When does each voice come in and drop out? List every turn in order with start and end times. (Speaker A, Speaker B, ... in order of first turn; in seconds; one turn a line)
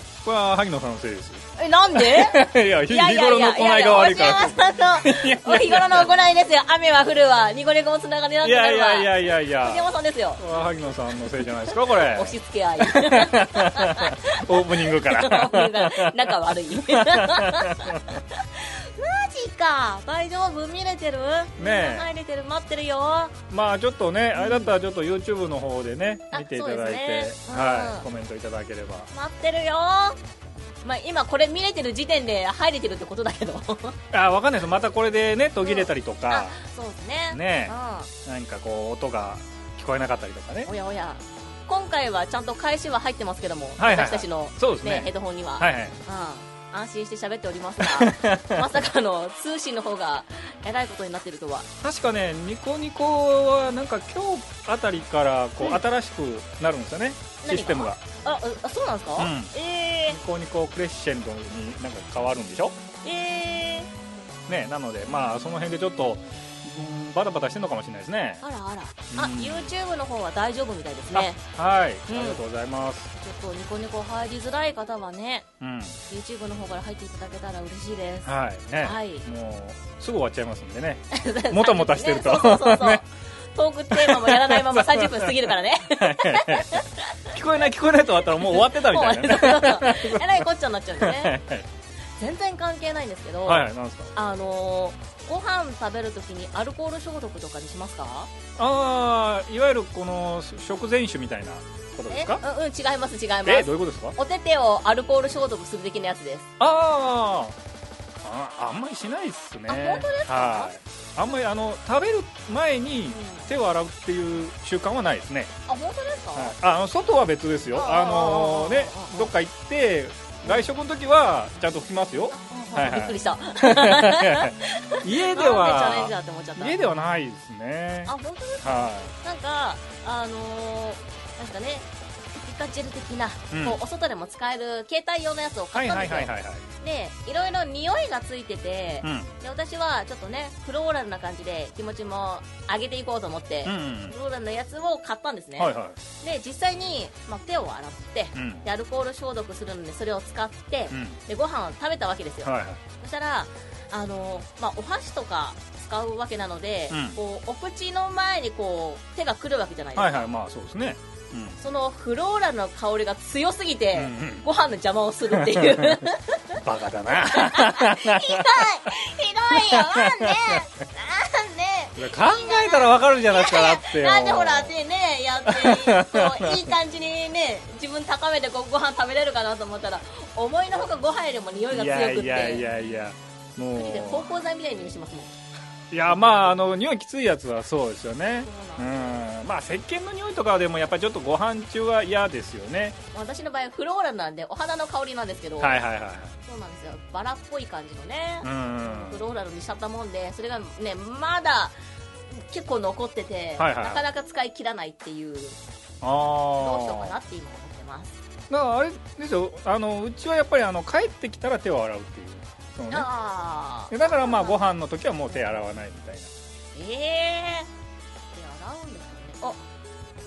Speaker A: 0.2-6.1
Speaker B: 1.6-10.4
Speaker A: 8.4-18.2
Speaker B: 11.7-23.3
Speaker A: 21.6-22.1
Speaker A: 23.5-29.1
Speaker B: 24.4-24.7
Speaker B: 26.3-28.1
Speaker B: 29.1-30.2
Speaker B: 30.8-34.0
Speaker A: 34.1-36.6
Speaker B: 35.6-38.1
Speaker A: 37.3-40.7
Speaker B: 40.6-51.7
Speaker A: 43.8-46.0
Speaker A: 47.8-48.7
Speaker A: 51.8-58.0
Speaker B: 57.4-60.2
Speaker A: 59.2-59.5
Speaker A: 60.1-62.8
Speaker B: 63.0-63.9
Speaker A: 64.5-68.4
Speaker B: 68.4-71.4
Speaker A: 69.1-69.7
Speaker A: 71.1-73.1
Speaker B: 72.1-72.4
Speaker B: 73.2-75.5
Speaker A: 75.6-76.0
Speaker B: 76.1-79.3
Speaker A: 78.2-83.0
Speaker B: 81.1-87.3
Speaker A: 83.9-91.7
Speaker B: 88.5-91.3
Speaker B: 92.2-98.3
Speaker A: 93.5-94.1
Speaker A: 98.6-102.4
Speaker B: 102.1-106.5
Speaker A: 103.5-104.2
Speaker A: 106.6-107.6
Speaker A: 108.2-115.5
Speaker B: 109.7-110.7
Speaker B: 113.1-113.5
Speaker B: 115.7-116.5
Speaker A: 116.3-129.1
Speaker B: 117.7-119.3
Speaker B: 120.5-120.7
Speaker B: 122.3-126.8
Speaker B: 128.1-160.3
Speaker A: 133.5-133.8
Speaker A: 135.7-136.7
Speaker A: 139.0-139.3
Speaker A: 143.7-144.1
Speaker A: 145.6-146.0
Speaker A: 148.3-148.7
Speaker A: 150.9-151.2
Speaker A: 152.4-152.8
Speaker A: 156.9-157.2
Speaker A: 160.0-161.6
Speaker B: 161.6-182.7
Speaker A: 163.9-164.5
Speaker A: 165.3-166.0
Speaker A: 166.6-168.7
Speaker A: 169.5-170.6
Speaker A: 172.0-174.8
Speaker A: 175.4-176.7
Speaker A: 181.7-184.3
Speaker B: 183.8-185.4
Speaker A: 185.9-193.0
Speaker B: 188.4-189.3
Speaker B: 193.1-195.8
Speaker A: 195.6-196.3
Speaker B: 196.4-201.8
Speaker A: 198.4-199.3
Speaker B: 202.3-205.6
Speaker A: 203.6-204.0
Speaker A: 206.0-207.2
Speaker B: 206.6-208.2
Speaker A: 208.5-213.1
Speaker B: 212.9-214.8
Speaker A: 213.9-216.3
Speaker B: 216.8-217.7
Speaker B: 218.3-219.6